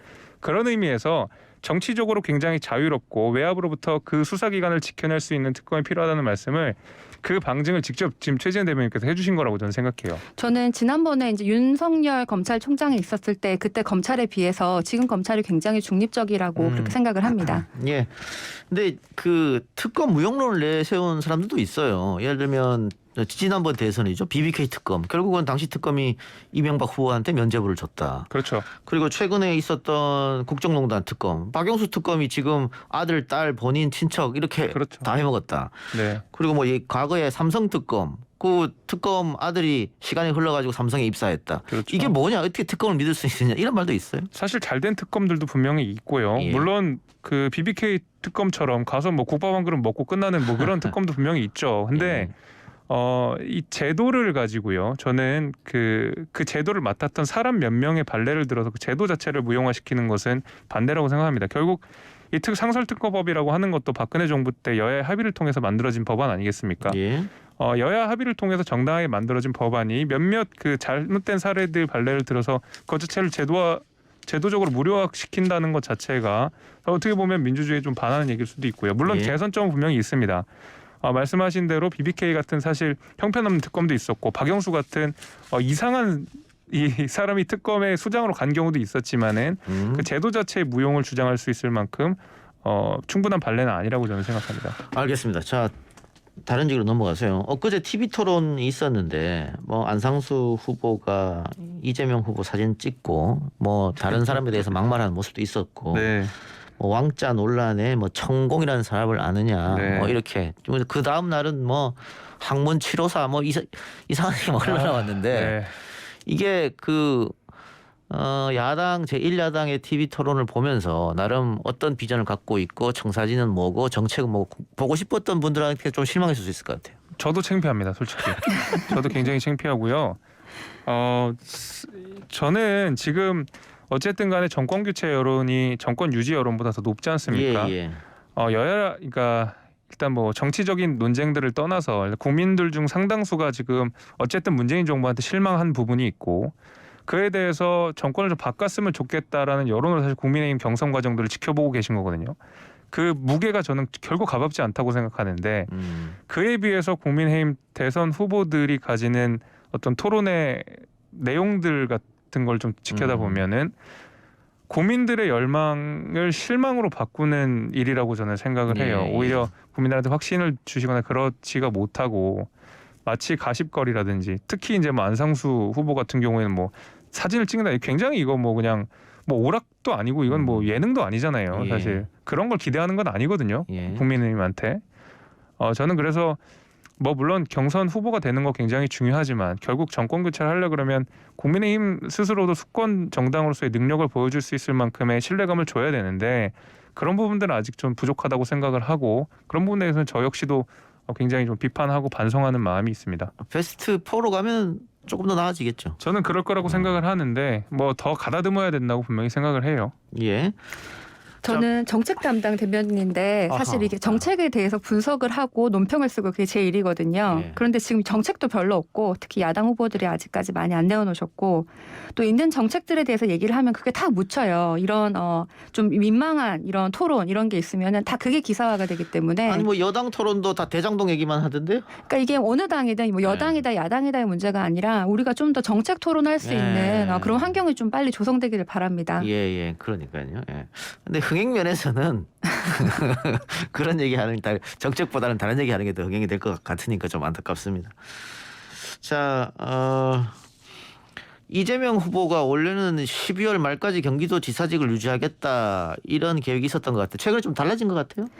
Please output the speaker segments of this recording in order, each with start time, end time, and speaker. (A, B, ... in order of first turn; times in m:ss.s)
0:00.4-0:10.2 A
0:10.4-0:17.6 B
0:16.6-0:44.3 C
0:28.3-0:28.7 A
0:34.7-0:35.1 A
0:35.9-0:36.2 A
0:41.7-0:42.1 A
0:44.3-0:52.3 A
0:46.4-0:46.7 C
0:50.6-0:50.9 C
0:51.9-0:52.3 C
0:52.9-1:07.0 A
1:06.8-1:07.3 C
1:07.6-1:20.4 A
1:19.0-1:19.3 C
1:21.0-1:34.8 A
1:29.7-1:30.1 C
1:34.9-1:35.7 C
1:36.4-1:46.1 C
1:44.1-1:44.6 A
1:45.9-1:46.3 A
1:46.8-1:57.4 C
1:49.6-1:50.2 A
1:54.6-1:55.7 A
1:58.1-2:07.0 C
2:07.2-2:10.2 A
2:10.8-2:17.7 A
2:17.3-2:18.0 C
2:18.4-2:26.5 A
2:27.1-2:32.4 A
2:32.9-2:35.7 A
2:35.7-2:36.2 C
2:36.3-2:43.7 A
2:42.9-2:43.4 C
2:44.7-2:52.5 A
2:48.7-2:49.5 C
2:53.0-3:04.8 A
3:00.3-3:00.8 C
3:01.5-3:02.1 C
3:03.7-3:04.0 C
3:05.6-3:06.4 A
3:07.0-3:23.3 A
3:23.4-3:26.0 C
3:26.0-3:29.9 A
3:26.6-3:27.0 C
3:30.1-3:30.6 C
3:31.4-3:49.7 B
3:33.5-3:34.2 C
3:37.3-3:37.6 C
3:49.4-3:51.9 C
3:52.0-3:59.3 B
3:53.2-3:53.6 C
3:56.4-3:57.6 C
3:59.2-4:10.4 C
4:11.5-4:18.3 C